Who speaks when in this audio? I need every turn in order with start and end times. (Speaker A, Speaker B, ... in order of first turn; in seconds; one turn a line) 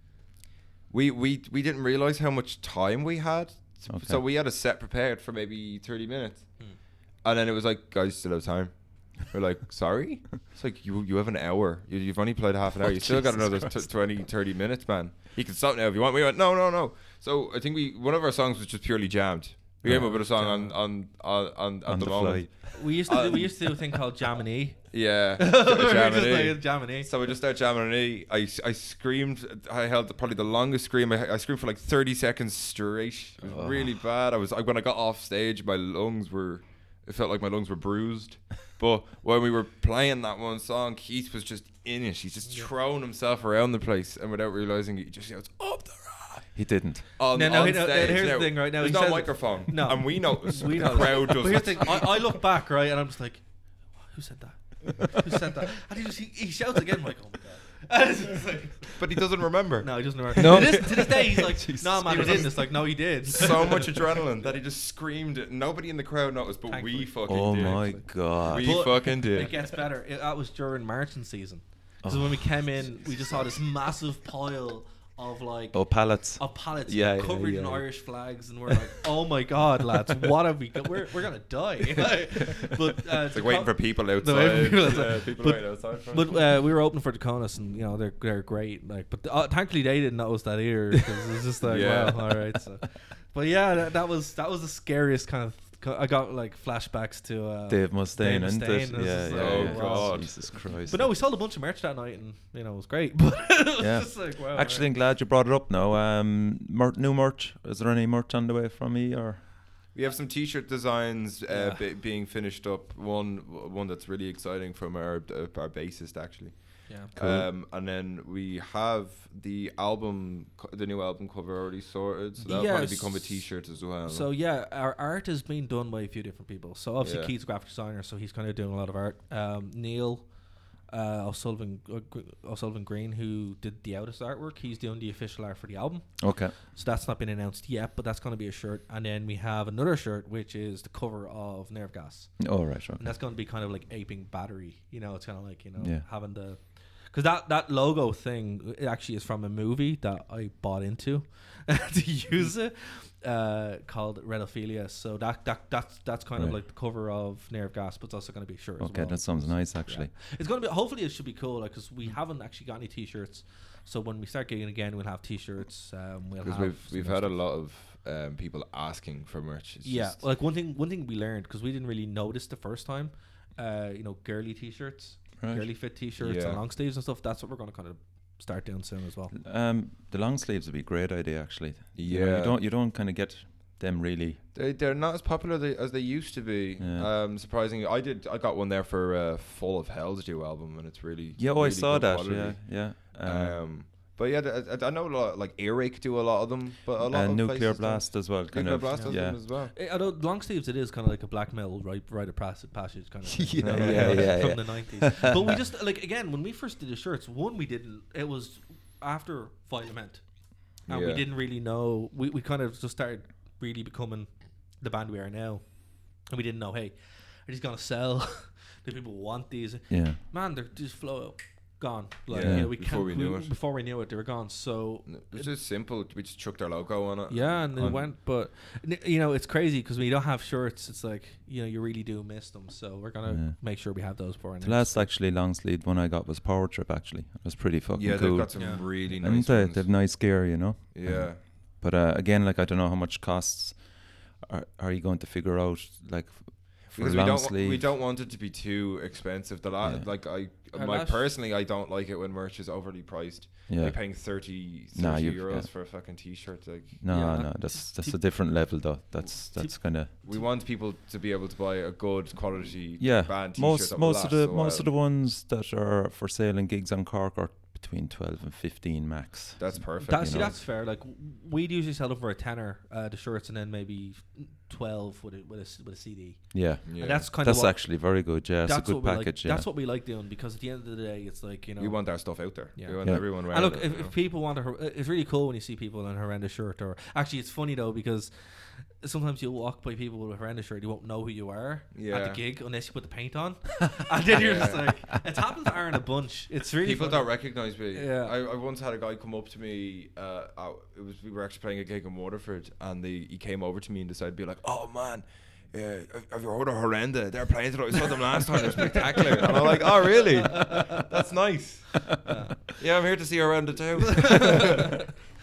Speaker A: 0.9-23.6
Speaker B: 3.9-4.2
Speaker B: 12.8-14.1
Speaker C: 19.8-20.8
Speaker B: 19.8-20.2
Speaker B: 21.9-22.8
Speaker C: 22.7-27.1
Speaker A: 24.9-52.1
Speaker B: 33.4-33.9
Speaker C: 42.4-42.7
Speaker B: 46.5-47.1
Speaker C: 47.3-59.0
Speaker A: 59.0-61.5
Speaker C: 59.8-63.9
Speaker B: 60.4-62.7
Speaker A: 62.0-69.5
Speaker C: 66.7-104.9
Speaker B: 67.3-69.1
Speaker B: 72.0-72.8
Speaker A: 72.9-73.6
Speaker B: 75.7-78.1
Speaker A: 83.3-86.5
Speaker A: 91.6-92.4
Speaker B: 97.7-101.1
Speaker A: 99.3-100.7
Speaker B: 103.8-109.5
Speaker A: 109.9-124.3
Speaker C: 111.5-111.8
Speaker C: 116.9-117.1
Speaker B: 117.2-117.5
Speaker C: 122.4-167.4
Speaker A: 127.0-127.3
Speaker B: 136.2-136.5
Speaker B: 142.4-143.1
Speaker B: 145.8-146.1
Speaker B: 158.8-160.1
Speaker A: 166.4-170.3
Speaker C: 169.8-179.3
Speaker B: 175.4-175.7
Speaker A: 176.2-176.6
Speaker B: 179.3-184.4
Speaker A: 181.9-182.6
Speaker A: 184.5-199.8
Speaker B: 186.8-187.1
Speaker B: 191.4-193.8
Speaker B: 197.1-199.4
Speaker C: 198.9-225.5
Speaker B: 203.6-205.2
Speaker A: 203.6-204.6
Speaker A: 210.9-211.2
Speaker B: 219.9-220.2
Speaker A: 222.3-223.5
Speaker B: 222.4-222.7
Speaker A: 225.1-228.1
Speaker C: 227.3-235.1
Speaker B: 233.2-247.9
Speaker A: 237.9-240.4
Speaker C: 238.5-238.9
Speaker A: 240.9-241.4
Speaker A: 246.8-257.0
Speaker B: 249.8-250.1
Speaker C: 250.7-251.3
Speaker B: 253.7-255.7
Speaker B: 257.0-260.1
Speaker C: 257.1-260.5
Speaker A: 260.2-264.9
Speaker B: 263.0-270.5
Speaker A: 269.6-270.6
Speaker C: 270.0-298.4
Speaker B: 276.5-279.7
Speaker A: 276.9-277.3
Speaker A: 281.8-284.1
Speaker A: 291.9-292.4
Speaker A: 294.3-294.9
Speaker A: 296.8-314.8
Speaker C: 310.4-311.0
Speaker C: 312.2-312.6
Speaker C: 314.1-314.9